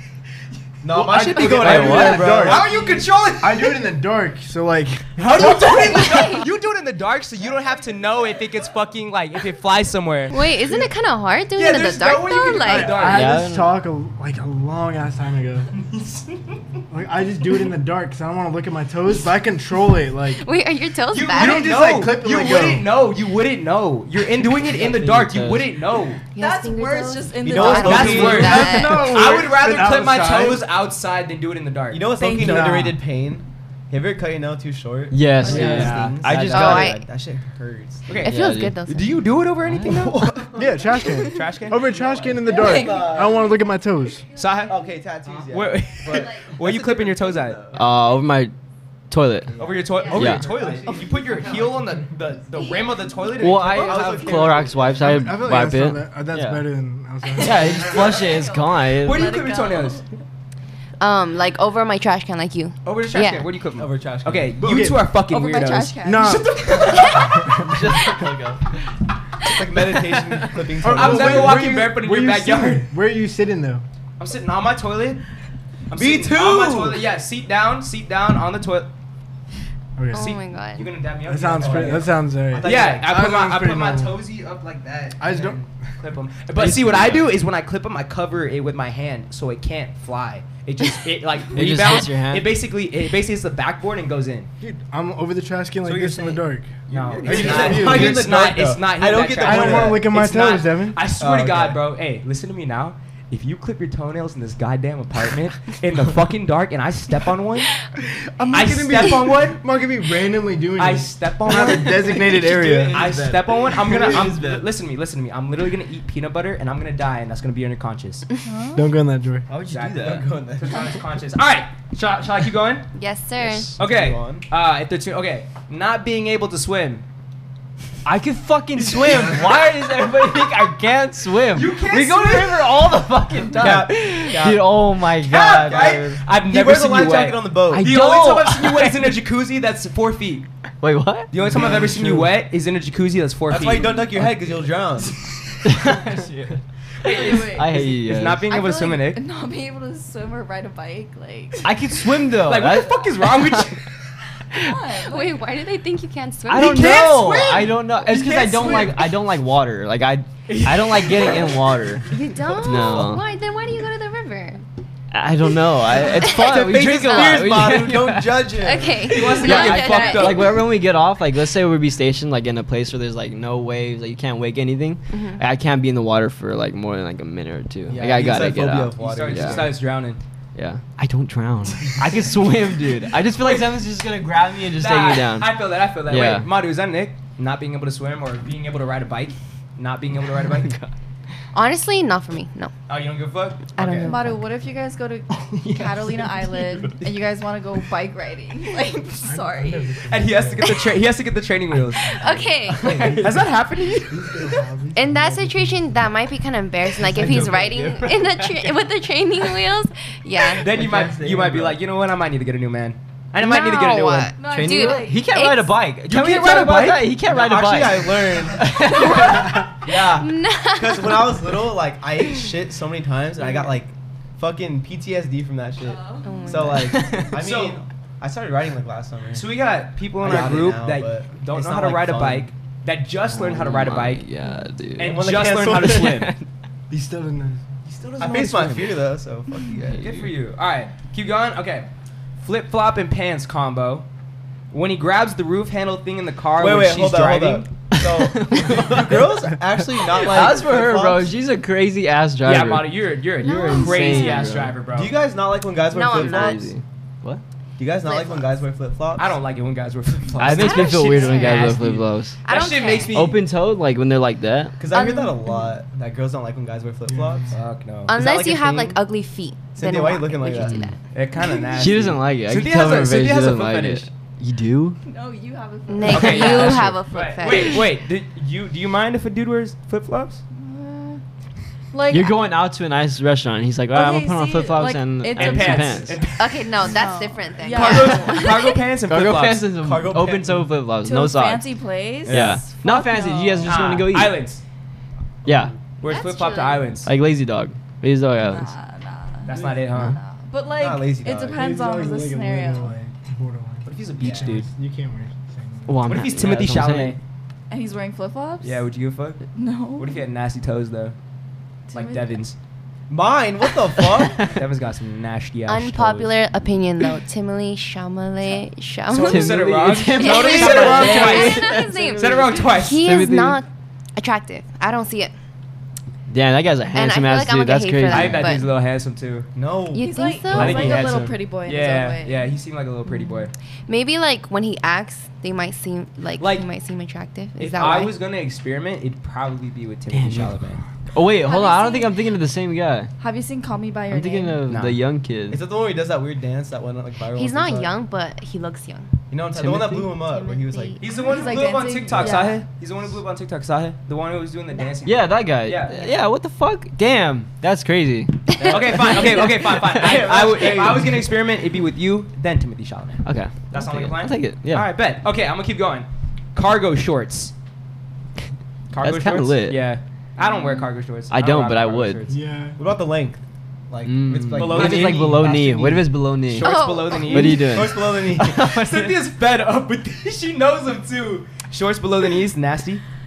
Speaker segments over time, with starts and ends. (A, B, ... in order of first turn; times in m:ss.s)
0:00.8-0:03.0 A
0:00.9-0:02.6 B
0:01.2-0:03.8 C
0:01.4-0:02.0 D
0:03.4-0:06.0 B
0:05.2-0:10.3 C
0:05.7-0:06.4 E
0:10.3-0:13.0 E
0:11.6-0:13.4 C
0:12.6-0:15.7 B
0:13.0-0:13.7 D
0:15.9-0:16.4 C
0:16.9-0:20.4 B
0:20.4-0:21.7 E
0:21.1-0:26.2 C
0:21.3-0:22.9 B
0:24.6-0:25.7 D
0:26.3-0:29.0 F
0:26.3-0:29.1 E
0:27.4-0:28.7 A
0:27.7-0:32.1 C
0:28.2-0:30.6 B
0:31.9-0:38.2 A
0:32.1-0:32.6 F
0:32.3-0:33.0 B
0:35.1-0:37.0 D
0:35.4-0:35.8 F
0:35.4-0:35.9 B
0:35.5-0:36.9 C
0:36.5-0:37.0 E
0:38.1-0:40.4 C
0:38.2-0:38.8 D
0:38.2-0:39.2 E
0:39.6-0:40.1 D
0:40.1-0:44.2 B
0:40.2-0:40.6 A
0:41.3-0:41.9 C
0:41.9-0:43.4 A
0:42.4-0:43.2 F
0:44.4-0:44.8 C
0:44.7-0:48.0 A
0:45.5-0:47.6 C
0:46.1-0:46.5 F
0:47.7-0:48.5 D
0:49.1-0:49.5 D
0:49.5-0:51.8 A
0:49.6-0:54.5 C
0:50.0-0:50.3 F
0:50.1-0:50.6 D
0:53.4-0:56.6 D
0:53.4-0:55.0 A
0:55.0-0:58.2 B
0:57.3-1:00.1 F
0:57.4-0:59.3 D
0:58.9-1:00.0 C
1:01.0-1:03.5 E
1:02.8-1:07.6 C
1:03.8-1:04.6 A
1:04.6-1:05.1 B
1:05.3-1:06.5 F
1:06.0-1:08.2 B
1:07.5-1:08.6 D
1:09.4-1:11.8 A
1:10.8-1:13.8 B
1:10.8-1:12.9 C
1:14.2-1:15.2 C
1:15.9-1:18.9 C
1:15.9-1:17.0 A
1:20.0-1:20.3 B
1:20.1-1:20.9 E
1:20.1-1:22.1 C
1:21.2-1:24.2 B
1:21.6-1:23.1 A
1:22.6-1:34.5 C
1:25.2-1:25.6 B
1:26.6-1:27.3 D
1:31.5-1:32.5 D
1:34.6-1:38.3 B
1:35.8-1:36.4 C
1:36.9-1:40.0 A
1:36.9-1:47.7 C
1:37.2-1:37.6 D
1:39.3-1:41.0 B
1:41.2-1:41.8 A
1:48.0-1:53.1 B
1:48.5-1:49.6 C
1:50.8-1:52.2 C
1:51.5-1:54.6 A
1:52.9-1:53.4 D
1:52.9-1:58.2 C
1:58.4-1:58.8 F
1:58.7-1:59.4 B
1:59.5-2:01.0 A
1:59.6-2:00.2 D
1:59.7-2:02.9 C
2:02.9-2:03.8 E
2:03.7-2:04.4 A
2:03.8-2:07.0 C
2:08.0-2:16.2 D
2:09.0-2:09.4 A
2:11.5-2:12.8 C
2:13.5-2:18.0 A
2:15.2-2:20.5 C
2:17.7-2:19.2 D
2:20.8-2:22.2 D
2:21.3-2:24.0 C
2:21.4-2:22.2 A
2:23.5-2:25.2 A
2:25.6-2:28.5 D
2:27.0-2:29.2 C
2:27.0-2:27.8 F
2:28.5-2:31.7 F
2:31.6-2:33.7 D
2:32.3-2:33.8 C
2:34.5-2:35.4 F
2:35.1-2:36.9 E
2:36.5-2:43.2 D
2:36.5-2:39.1 C
2:40.5-2:41.6 C
2:42.1-2:44.6 E
2:45.1-2:48.5 D
2:46.2-2:49.3 A
2:47.1-2:47.4 E
2:48.6-2:50.4 E
2:49.0-2:50.6 C
2:49.4-2:59.8 D
2:49.4-2:50.4 F
2:55.1-2:55.4 E
2:57.9-2:59.8 A
2:59.0-3:00.2 C
3:00.5-3:06.5 D
3:04.7-3:10.7 C
3:10.5-3:10.9 D
3:11.5-3:12.7 E
3:12.9-3:14.2 C
3:13.8-3:14.1 E
3:14.0-3:20.1 F
3:15.6-3:17.0 D
3:19.2-3:20.8 B
3:20.1-3:22.2 C
3:22.0-3:23.1 E
3:22.8-3:23.3 D
3:22.8-3:23.3 B
3:22.8-3:24.5 C
3:24.0-3:26.0 B
3:24.9-3:30.7 E
3:27.0-3:28.8 D
3:27.2-3:27.6 A
3:27.3-3:27.5 C
3:30.6-3:34.3 C
3:30.7-3:31.8 A
3:30.7-3:31.7 D
3:33.4-3:35.8 E
3:34.4-3:35.4 F
3:34.4-3:39.6 D
3:36.1-3:37.1 C
3:37.2-3:49.5 A
3:38.9-3:41.4 E
3:45.8-3:46.7 F
3:46.2-3:47.2 E
3:46.8-3:47.3 D
3:47.3-3:47.8 C
3:49.3-3:54.2 C
3:50.2-3:52.5 A
3:53.3-3:56.4 D
3:55.0-3:56.3 C
3:55.0-3:56.1 A
3:56.9-3:57.6 B
3:57.8-3:59.0 C
3:58.2-4:00.1 A
3:59.8-4:00.3 D
3:59.9-4:01.9 C
4:02.4-4:04.0 C
4:04.7-4:07.7 C
4:06.6-4:11.3 A
4:07.9-4:09.3 D
4:10.0-4:14.8 D
4:12.4-4:15.2 C
4:13.4-4:14.5 E
4:14.9-4:16.7 A
4:15.9-4:16.7 E
4:16.1-4:17.4 D
4:17.8-4:19.4 A
4:18.0-4:18.6 E
4:19.2-4:23.4 C
4:20.4-4:22.4 D
4:20.4-4:21.8 E
4:22.4-4:23.2 E
4:23.1-4:24.8 D
4:24.8-4:29.0 A
4:24.9-4:25.8 E
4:27.1-4:27.5 B
4:27.5-4:28.1 C
4:28.1-4:31.0 E
4:29.7-4:30.8 A
4:30.5-4:30.9 D
4:31.1-4:34.1 C
4:31.7-4:35.0 D
4:35.0-4:37.7 F
4:35.9-4:37.8 E
4:36.0-4:40.4 C
4:36.2-4:37.0 D
4:40.6-4:41.2 F
4:41.9-4:42.4 F
4:42.1-4:46.2 D
4:43.9-4:46.2 F
4:45.3-4:46.9 C
4:46.4-4:48.6 E
4:46.8-4:48.8 F
4:47.7-4:49.6 C
4:49.1-4:51.7 D
4:49.8-4:50.7 A
4:51.0-4:53.9 F
4:52.3-4:52.6 C
4:52.3-4:54.4 D
4:53.6-4:54.6 C
4:55.4-4:55.8 D
4:56.0-4:57.1 C
4:56.0-4:56.9 E
4:57.0-4:58.7 D
4:58.3-5:02.9 F
4:59.4-5:00.2 C
4:59.9-5:00.2 D
5:00.7-5:01.6 A
5:01.5-5:06.2 B
5:03.8-5:04.7 C
5:04.2-5:04.6 A
5:05.9-5:07.2 D
5:06.1-5:07.2 C
5:07.7-5:08.8 F
5:08.6-5:09.4 C
5:09.5-5:10.2 F
5:10.0-5:11.2 C
5:11.9-5:12.4 F
5:11.9-5:12.6 C
5:13.1-5:14.4 A
5:14.1-5:14.6 D
5:14.5-5:16.3 C
5:15.7-5:19.6 E
5:19.1-5:23.0 C
5:19.1-5:22.0 D
5:20.1-5:25.3 E
5:21.0-5:22.6 F
5:22.9-5:23.6 D
5:26.3-5:28.6 D
5:26.9-5:28.7 E
5:28.1-5:29.5 C
5:29.6-5:31.2 A
5:29.9-5:30.9 E
5:29.9-5:32.5 F
5:30.5-5:33.5 C
5:33.1-5:38.1 E
5:36.4-5:36.6 C
5:37.6-5:40.8 C
5:40.1-5:43.1 D
5:41.4-5:42.2 F
5:43.2-5:44.7 F
5:44.1-5:45.6 D
5:44.7-5:45.0 C
5:45.5-5:47.9 A
5:47.3-5:49.1 E
5:49.3-5:51.0 A
5:49.5-5:50.1 D
5:50.3-5:51.1 E
5:51.0-5:56.0 C
5:51.1-5:52.6 F
5:55.0-6:00.3 D
5:58.6-6:07.5 C
5:59.9-6:01.3 A
6:03.2-6:04.9 D
6:08.9-6:12.4 C
6:09.0-6:09.8 D
6:10.4-6:10.9 E
6:11.3-6:12.2 D
6:12.3-6:12.8 B
6:12.8-6:16.0 A
6:14.0-6:19.2 D
6:14.5-6:17.8 C
6:16.6-6:17.6 E
6:17.4-6:18.6 A
6:18.4-6:23.0 C